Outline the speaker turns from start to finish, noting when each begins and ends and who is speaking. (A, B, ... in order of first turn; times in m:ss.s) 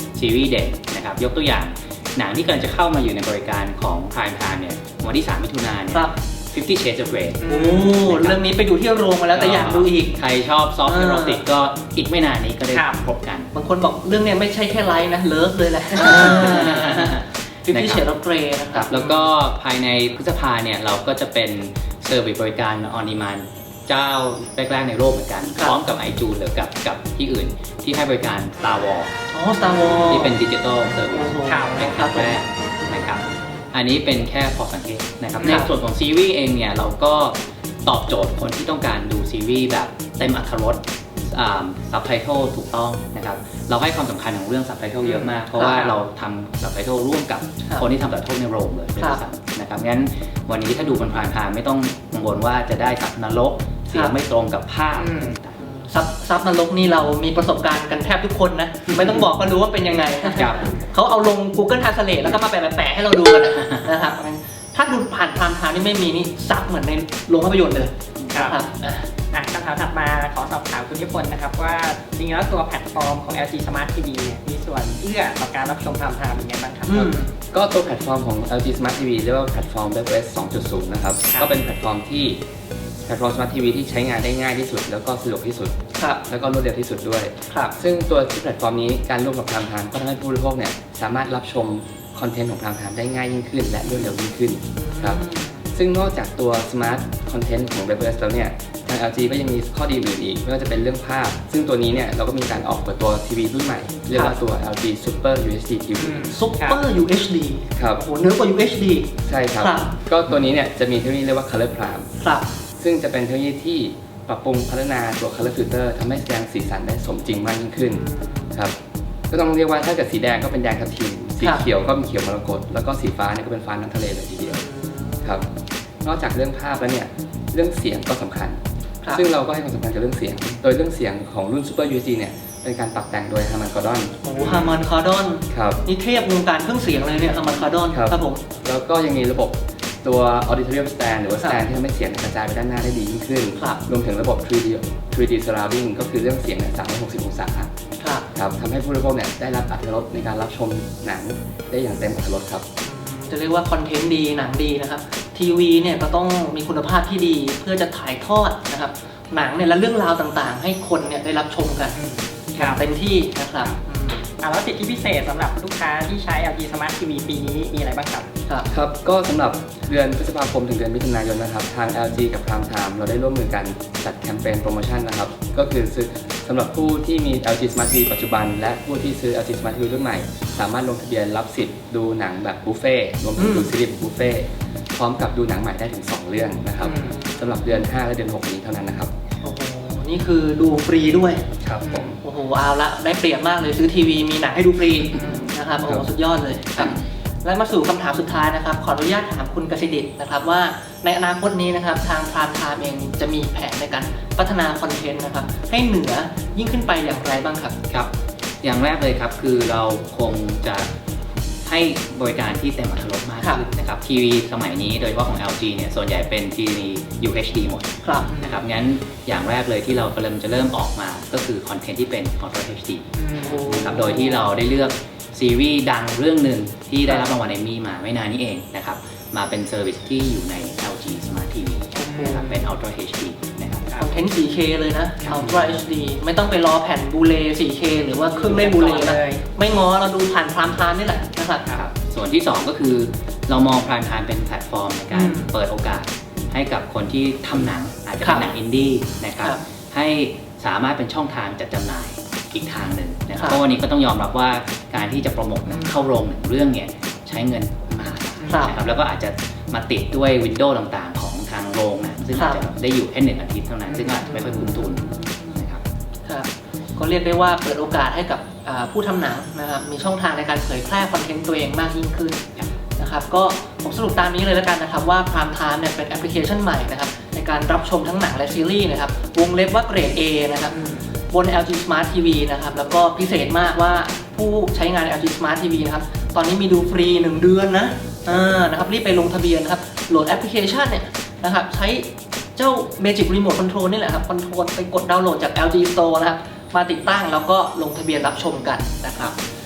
0:00.2-0:08.4 A
0:07.4-0:07.9 B
0:07.4-0:10.2 C
0:09.3-0:13.5 A
0:10.8-0:11.4 C
0:12.7-0:13.0 B
0:13.5-0:19.3 C
0:16.2-0:18.0 A
0:18.7-0:29.1 A
0:29.3-0:30.4 C
0:30.1-0:55.6 A
0:31.1-0:32.4 C
0:31.4-0:31.8 B
0:35.4-0:35.7 C
0:45.5-0:45.9 C
0:49.0-0:49.2 C
0:55.8-1:09.1 C
1:09.3-1:17.1 B
1:16.9-1:17.3 C
1:17.5-1:22.4 D
1:23.0-1:35.2 D
1:26.0-1:26.2 C
1:27.5-1:27.8 C
1:33.8-1:34.1 C
1:34.8-1:35.6 C
1:35.7-1:46.3 D
1:46.2-1:46.8 B
1:46.2-1:49.9 C
1:47.8-1:48.0 D
1:49.2-1:52.1 D
1:52.2-1:52.5 C
1:52.8-1:58.7 D
1:57.9-1:58.5 C
1:59.3-2:04.6 D
2:04.4-2:05.5 C
2:06.0-2:08.6 D
2:09.1-2:14.8 D
2:14.2-2:18.4 C
2:15.5-2:15.8 D
2:17.9-2:27.7 D
2:28.0-2:28.2 C
2:28.3-2:32.6 D
2:32.8-2:42.0 C
2:42.0-2:42.8 B
2:42.5-2:44.2 C
2:44.4-2:48.3 B
2:48.7-3:09.1 D
3:03.4-3:03.7 C
3:06.8-3:07.6 C
3:09.4-3:27.7 C
3:11.8-3:12.2 D
3:16.8-3:17.0 A
3:28.6-3:30.9 A
3:31.6-3:53.9 A
3:38.0-3:38.3 C
3:38.3-3:38.6 B
3:43.2-3:43.6 B
3:43.3-3:44.4 C
3:52.0-3:52.6 C
3:52.1-3:52.5 B
3:54.0-4:01.6 C
3:55.2-3:55.7 A
3:58.3-3:59.4 B
4:01.7-4:25.8 A
4:05.1-4:05.5 C
4:08.2-4:08.5 C
4:18.5-4:18.8 C
4:22.3-4:22.6 C
4:24.0-4:25.6 C
4:26.2-4:32.4 C
4:33.0-4:59.4 C
4:40.7-4:41.0 B